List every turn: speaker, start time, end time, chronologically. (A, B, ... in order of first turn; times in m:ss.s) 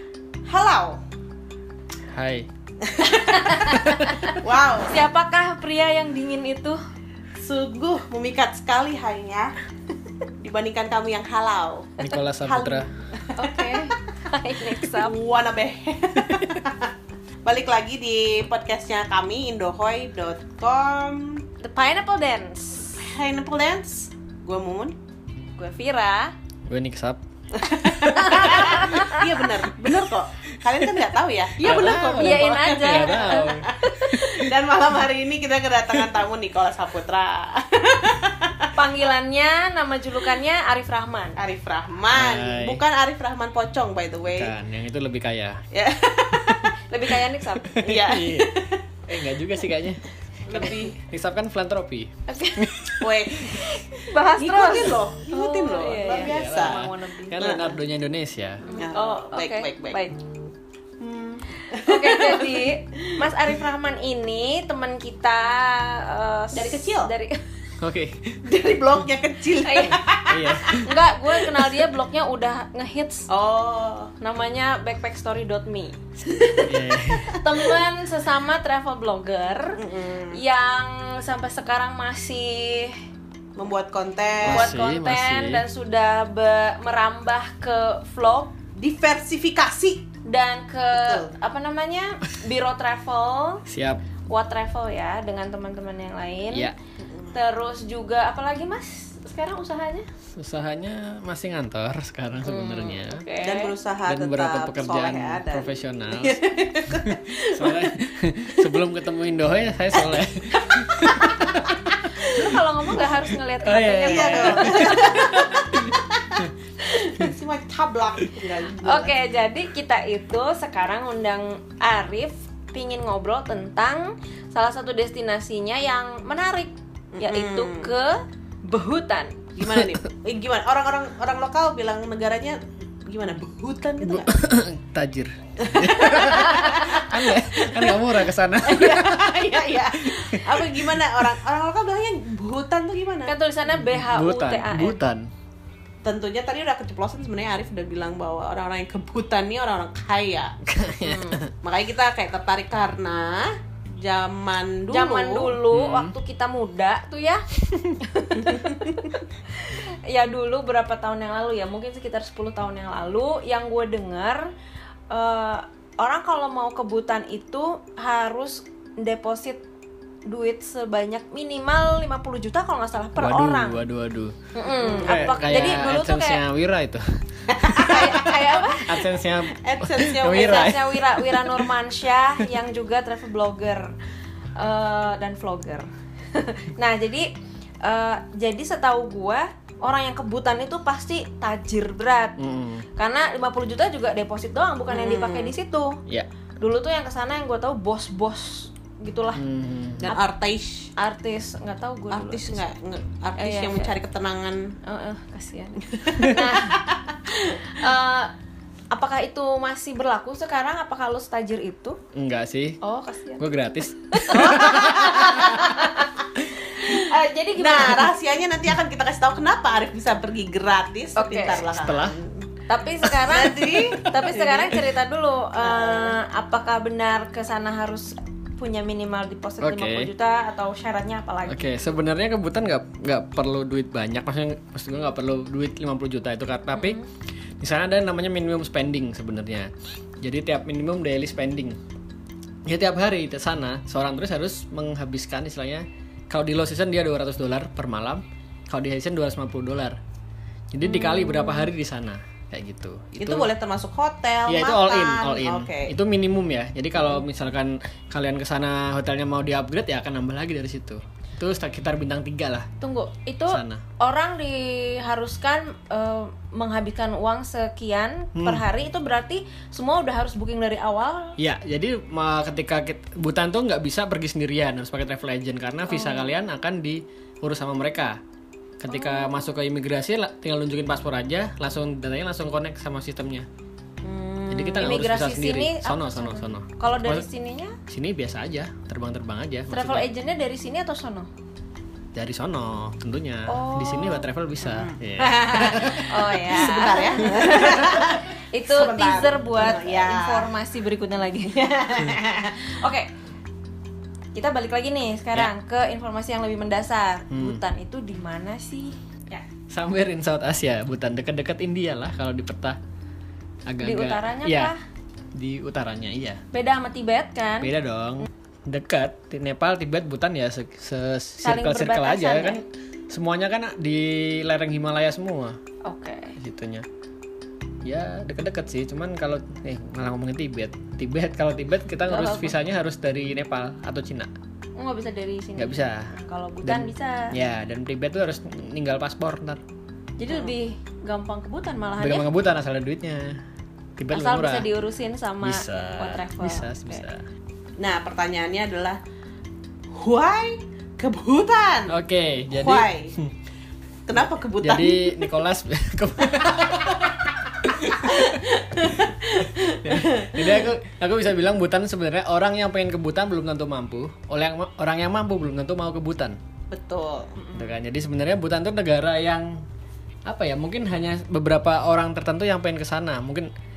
0:00.5-0:01.0 A
0:02.1-0:02.5 B
0:02.8-0:05.0 A
0:03.2-0:06.8 C
0:03.7-0:04.2 B
0:07.4-0:09.5 A
0:10.4-0:13.9 A
0:12.0-0:12.9 B
0:13.3-0:15.2 C
0:14.8-0:16.9 A
0:17.4-0:21.4 A
0:21.6-0:23.0 C
0:23.0-0:25.0 A
0:25.6-0:26.3 C
0:26.7-0:27.2 B
0:27.5-0:38.7 A
0:27.8-0:29.0 B
0:28.0-0:29.4 C
0:31.6-0:34.3 B
0:31.6-0:33.6 C
0:38.7-0:41.4 C
0:41.4-0:44.5 A
0:42.1-0:42.8 B
0:44.3-0:45.6 B
0:45.7-0:46.8 A
0:46.9-0:47.8 C
0:47.6-0:52.9 B
0:47.7-0:48.8 A
0:50.4-0:51.0 A
0:52.3-0:57.5 C
0:53.0-0:56.8 A
0:56.1-0:58.6 B
0:57.4-0:57.7 A
0:58.6-1:00.2 C
0:58.7-1:00.0 A
1:01.0-1:03.2 A
1:01.7-1:07.4 C
1:06.5-1:07.1 A
1:07.8-1:08.4 B
1:08.4-1:11.7 A
1:09.6-1:10.0 C
1:10.3-1:10.9 B
1:10.8-1:13.3 C
1:13.3-1:14.1 A
1:14.2-1:23.0 C
1:16.6-1:17.4 B
1:19.8-1:20.4 A
1:23.6-1:24.7 A
1:24.4-1:25.6 B
1:24.4-1:28.5 C
1:28.8-1:30.1 A
1:30.2-1:33.6 C
1:30.9-1:31.3 A
1:33.7-1:34.0 B
1:34.3-1:36.7 C
1:37.0-1:37.4 A
1:37.3-1:40.0 C
1:40.3-1:43.2 B
1:42.4-1:43.7 C
1:43.4-1:47.9 A
1:44.0-1:46.4 B
1:46.9-1:55.8 B
1:50.6-1:51.6 A
1:52.2-1:55.6 C
1:54.0-1:59.1 A
1:58.8-2:09.4 C
2:07.1-2:07.9 A
2:09.6-2:14.3 A
2:09.7-2:10.0 B
2:14.0-2:21.3 B
2:15.6-2:23.3 A
2:16.2-2:17.0 C
2:23.2-2:25.0 C
2:23.7-2:25.3 B
2:26.0-2:30.6 A
2:30.6-2:31.5 B
2:31.0-2:31.4 C
2:31.6-2:35.6 A
2:34.9-2:37.4 C
2:35.7-2:36.1 B
2:37.7-2:38.0 B
2:38.0-2:44.5 C
2:38.4-2:38.8 A
2:45.1-2:49.6 C
2:50.3-2:53.8 C
2:53.2-2:58.3 B
2:54.5-2:56.4 C
2:54.8-2:55.3 A
2:57.5-2:58.6 A
2:57.8-2:59.0 C
2:58.8-3:01.7 B
2:59.5-3:00.7 A
3:00.3-3:03.9 C
3:04.6-3:07.3 C
3:07.8-3:12.4 C
3:12.4-3:12.8 B
3:13.0-3:16.0 C
3:14.9-3:15.5 A
3:16.6-3:19.4 C
3:19.3-3:20.1 B
3:20.0-3:20.9 A
3:21.0-3:22.6 C
3:22.1-3:24.7 A
3:23.4-3:23.9 C
3:24.8-3:26.8 C
3:25.8-3:27.8 A
3:27.4-3:28.3 C
3:28.9-3:32.0 C
3:32.1-3:32.8 B
3:32.8-3:33.4 C
3:33.4-3:35.3 B
3:34.1-3:38.1 C
3:34.3-3:35.8 A
3:36.8-3:42.5 A
3:41.2-3:41.7 C
3:41.6-3:42.2 B
3:42.7-3:51.6 C
3:43.0-3:44.8 A
3:45.6-3:46.2 A
3:49.6-3:50.1 B
3:51.5-3:57.0 B
3:56.7-3:57.0 C
3:57.6-4:01.8 B
4:02.6-4:10.0 B
4:10.7-4:13.5 B
4:10.8-4:11.7 C
4:13.2-4:15.9 A
4:14.5-4:22.7 B
4:22.8-4:31.4 C
4:23.5-4:23.8 B
4:28.3-4:28.6 B
4:31.4-4:38.2 B
4:35.9-4:36.3 C
4:38.8-4:43.5 B
4:38.9-4:39.5 C
4:44.0-4:47.8 C
4:44.5-4:47.3 B
4:47.9-4:50.1 B
4:49.7-4:51.3 C
4:52.1-4:56.2 B
4:53.5-4:54.3 C
4:54.6-5:00.5 A
4:55.8-5:01.7 C
5:01.5-5:02.7 A
5:02.6-5:03.1 C
5:04.3-5:09.4 C
5:07.3-5:07.6 B
5:09.7-5:12.8 B
5:13.7-5:14.7 B
5:13.8-5:14.8 C
5:15.3-5:16.4 B
5:16.5-5:17.7 C
5:17.6-5:25.6 B
5:21.4-5:22.6 C
5:25.8-5:26.4 C
5:26.4-5:26.8 B
5:27.8-5:34.3 B
5:32.1-5:32.5 C
5:34.8-5:37.3 C
5:35.6-5:36.1 B
5:36.6-5:39.6 B
5:40.2-5:42.3 C
5:40.3-5:40.5 A
5:42.0-5:43.4 B
5:44.0-5:44.7 B
5:44.1-5:47.0 C
5:45.4-5:47.2 B
5:47.8-5:49.0 A
5:49.9-5:51.9 A
5:51.9-5:53.3 B
5:52.5-5:53.2 A
5:54.1-5:55.2 A
5:54.2-5:58.2 B
5:56.3-6:00.7 A
5:59.8-6:06.4 B
6:06.7-6:07.3 A
6:07.3-6:07.7 C
6:07.5-6:09.6 B
6:10.3-6:13.5 B